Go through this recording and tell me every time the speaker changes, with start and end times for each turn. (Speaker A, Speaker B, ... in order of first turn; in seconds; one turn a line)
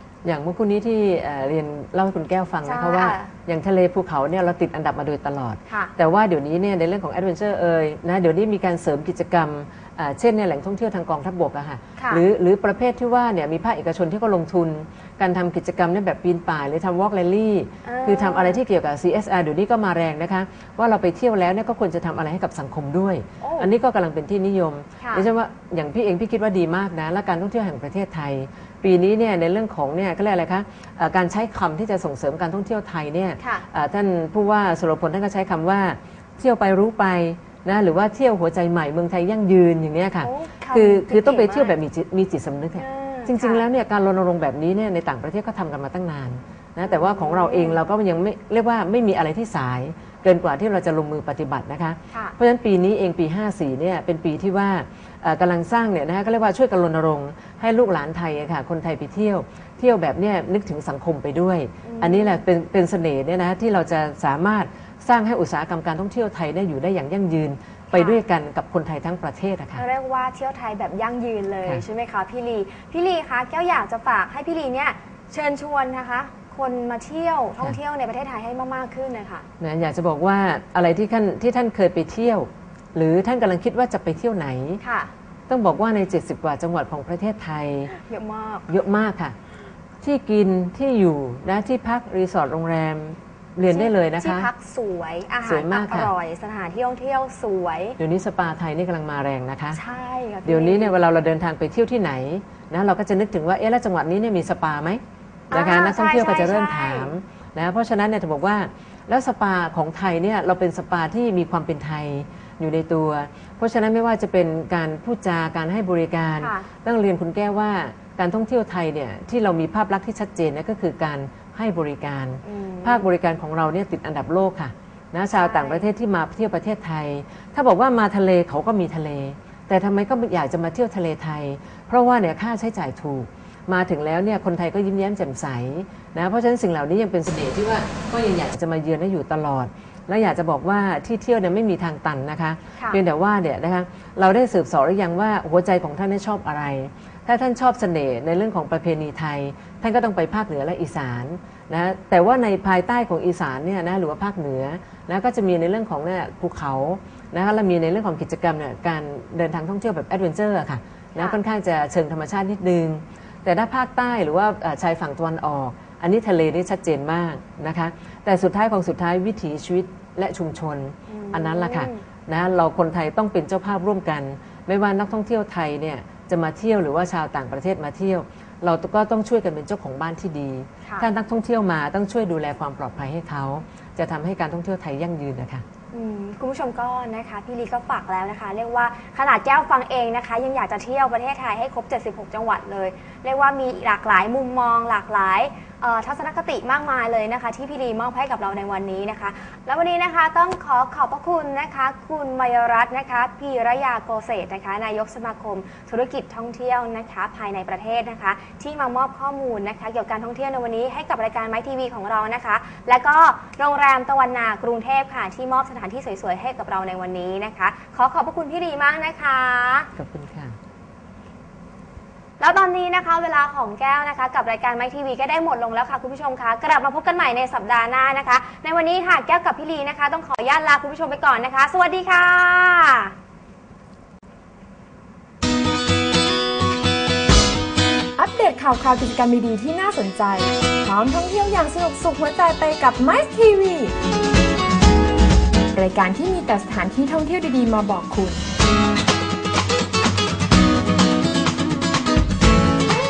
Speaker A: 0.2-69.8
Speaker B: 2.6-3.3
Speaker B: 12.0-12.2
Speaker B: 17.9-18.6
Speaker B: 23.4-23.7
Speaker B: 25.0-25.3
Speaker B: 33.4-33.7
Speaker B: 40.2-41.7
Speaker B: 42.8-43.6
Speaker B: 46.8-47.8
Speaker B: 61.8-62.4
Speaker B: 67.9-68.2
Speaker B: 69.8-79.5
Speaker A: 79.6-84.8
Speaker B: 84.8-85.1
Speaker A: 85.5-87.9
Speaker B: 87.9-88.7
Speaker A: 88.7-89.4
Speaker A: 90.0-94.5
Speaker B: 93.7-98.0
Speaker A: 95.5-96.1
Speaker A: 98.0-99.8
Speaker B: 99.7-101.0
Speaker A: 100.5-185.6
Speaker B: 105.5-107.1
Speaker B: 116.4-116.7
Speaker B: 122.4-123.1
Speaker B: 125.3-125.9
Speaker B: 171.1-172.1
Speaker B: 185.9-219.9
Speaker A: 220.0-220.6
Speaker B: 222.4-233.1
Speaker C: 238.2-243.9
Speaker C: 245.7-248.4